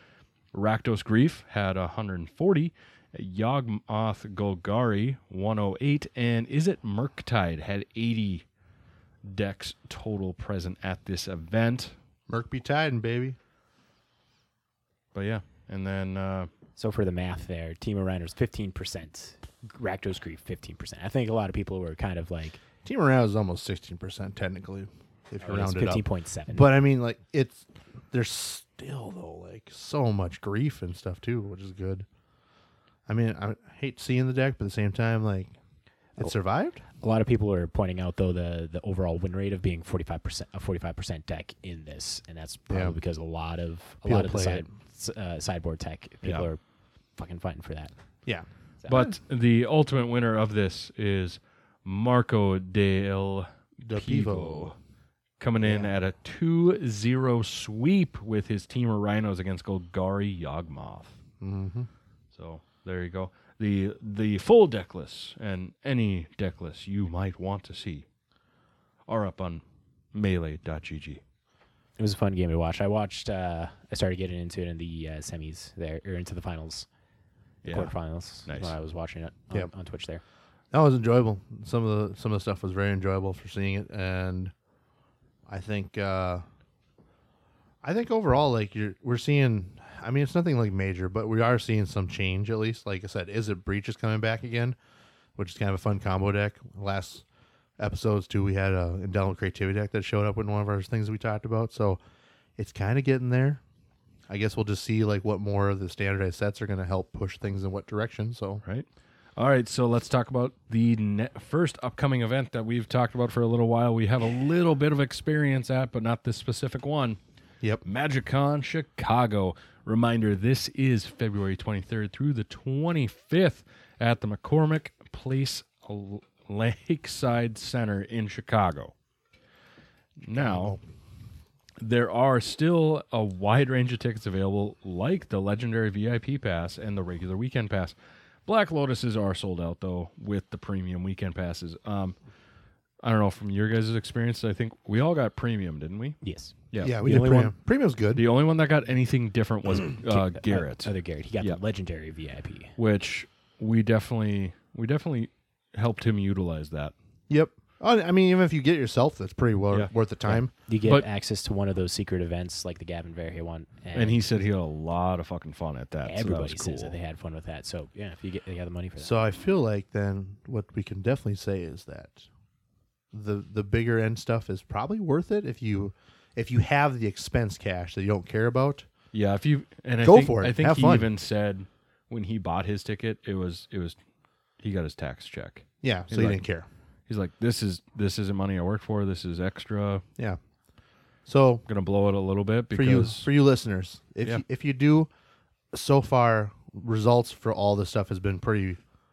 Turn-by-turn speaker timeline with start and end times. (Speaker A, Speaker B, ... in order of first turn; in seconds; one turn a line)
Speaker A: 0.5-8.4
Speaker A: 9.2-11.9
Speaker B: 12.3-13.4
Speaker A: 15.1-16.5
Speaker C: 16.8-22.6
Speaker B: 22.8-32.0
Speaker C: 25.4-26.7
Speaker B: 33.1-35.5
Speaker B: 36.2-36.8
Speaker C: 37.0-46.6
Speaker B: 42.7-43.0
Speaker B: 44.0-44.7
Speaker C: 47.1-47.9
Speaker B: 48.2-49.0
Speaker A: 48.9-54.7
Speaker B: 53.9-54.7
Speaker A: 55.4-61.1
Speaker B: 55.6-55.9
Speaker B: 61.4-61.9
Speaker A: 62.3-68.0
Speaker A: 69.1-69.6
Speaker A: 70.1-71.2
Speaker C: 72.0-76.9
Speaker A: 77.6-78.7
Speaker C: 77.7-80.2
Speaker B: 80.7-84.5
Speaker B: 85.5-86.4
Speaker B: 87.8-94.8
Speaker B: 95.3-97.2
Speaker B: 97.8-102.0
Speaker B: 102.6-103.6
Speaker B: 104.3-108.6
Speaker A: 108.6-117.2
Speaker A: 117.8-128.9
Speaker A: 130.2-130.8
Speaker B: 130.3-130.8
Speaker A: 131.8-137.9
Speaker A: 138.4-142.2
Speaker A: 143.0-146.2
Speaker C: 146.2-147.5
Speaker A: 146.7-147.0
Speaker B: 146.8-148.2
Speaker A: 148.1-150.9
Speaker C: 150.1-152.7
Speaker A: 152.8-156.9
Speaker B: 157.3-160.5
Speaker C: 160.3-164.2
Speaker A: 163.9-167.0
Speaker C: 166.0-169.2
Speaker B: 169.0-172.3
Speaker B: 173.1-178.9
Speaker A: 179.1-183.9
Speaker B: 180.0-181.1
Speaker A: 184.6-186.4
Speaker B: 185.8-186.7
Speaker A: 187.1-190.0
Speaker B: 191.2-191.6
Speaker A: 191.7-193.3
Speaker B: 192.7-195.1
Speaker B: 195.7-198.8